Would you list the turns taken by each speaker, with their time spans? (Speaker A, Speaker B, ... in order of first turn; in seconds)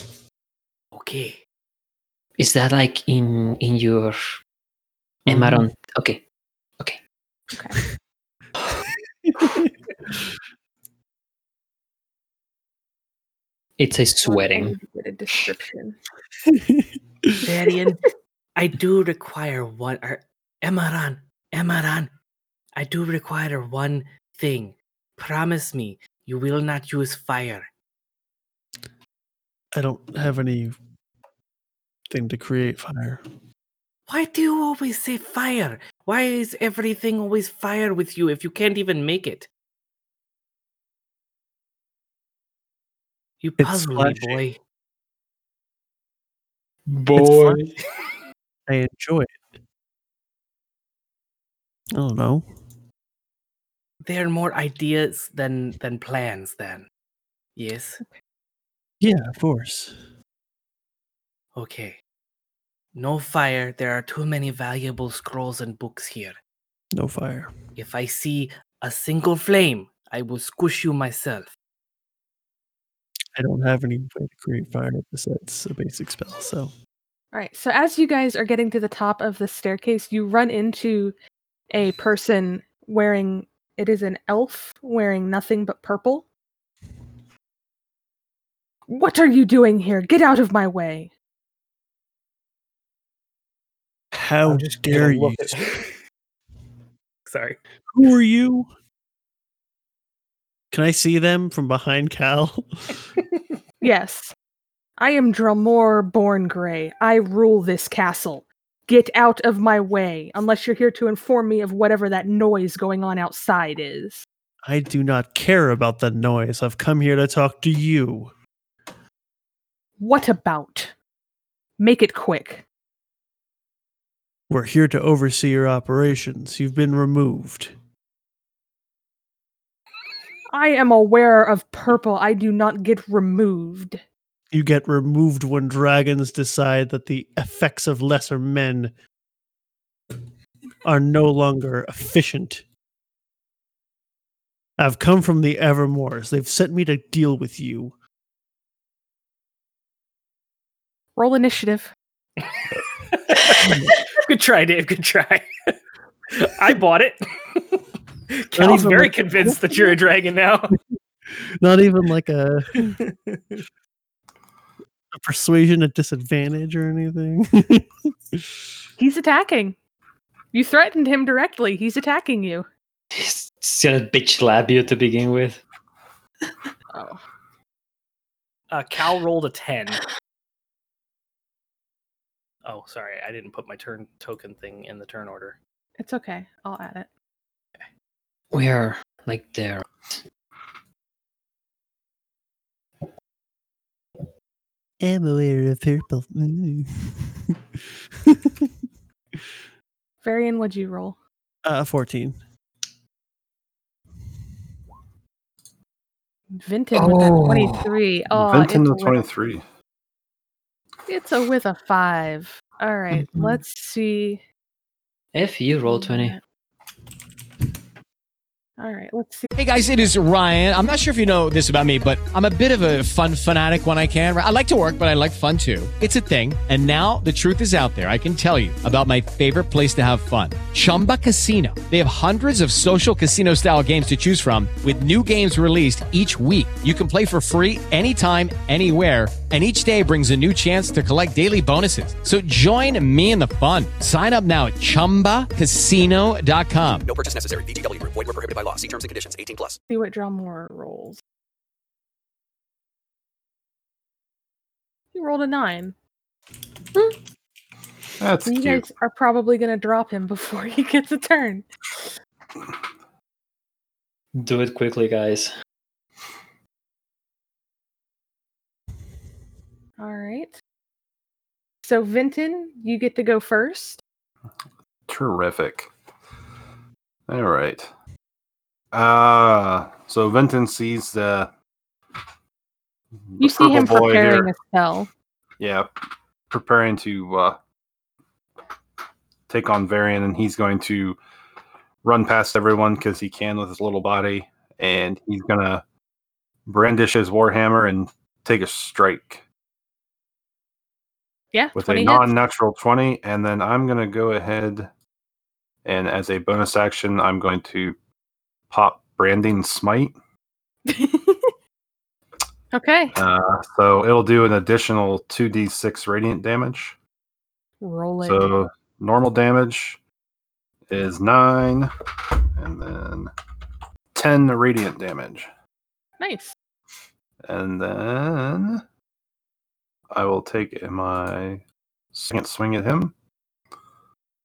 Speaker A: 0.9-1.4, 17.4-22.1, 22.8-27.7, 34.1-39.5, 43.4-44.6, 54.0-56.9, 57.5-58.0, 61.5-62.0, 62.9-66.4, 67.8-71.5, 94.5-95.8, 97.3-97.6, 153.1-155.7, 156.3-157.8, 158.3-160.8, 163.0-163.6, 178.7-180.0, 182.6-185.6
Speaker B: 2.4-4.2, 5.2-6.2, 13.8-14.8, 46.9-47.6, 173.1-175.6, 188.5-190.2, 206.9-207.9, 215.3-216.4, 264.3-265.5
Speaker C: 5.2-5.6, 16.5-17.4, 29.7-30.8, 32.1-33.2, 43.6-44.4, 47.1-47.6, 48.7-49.4, 51.9-52.5, 59.0-60.0, 66.9-67.5, 73.3-76.7, 94.1-95.8, 97.9-98.7, 100.7-103.0, 114.6-118.3, 124.5-127.7, 134.5-138.9, 140.8-142.6, 144.8-147.9, 158.5-159.9, 161.3-163.0, 165.1-168.5, 195.0-197.6, 198.2-198.7, 201.6-202.4
Speaker D: 7.5-7.8, 14.2-16.0, 77.3-81.1, 81.7-86.3, 88.9-91.1, 103.8-104.3, 105.0-114.2, 120.0-120.9, 121.8-122.6, 130.5-134.0, 151.2-151.9, 169.0-169.8, 170.5-172.7, 176.9-177.2, 186.0-187.1, 200.2-201.2, 206.6-209.2, 211.1-214.4, 215.8-216.4, 218.8-219.5, 249.9-251.2, 255.1-255.9, 258.4-261.6, 270.0-270.6, 271.8-274.0, 283.4-285.1, 301.5-302.3, 310.9-311.5, 312.7-313.1, 317.8-318.5, 326.2-326.5
Speaker E: 208.3-209.6, 258.2-258.8, 275.1-275.9, 277.3-277.9, 278.9-281.5, 283.3-284.5, 285.6-285.9, 286.5-287.6, 289.5-291.2, 292.0-295.8, 296.6-299.4, 301.7-304.9, 305.8-307.9, 308.7-310.1, 313.1-316.9, 318.2-320.0, 320.9-321.9, 322.6-323.3, 324.1-325.5, 327.4-328.8, 330.1-331.6, 332.1-333.1
Speaker F: 219.6-247.1
Speaker G: 247.0-249.8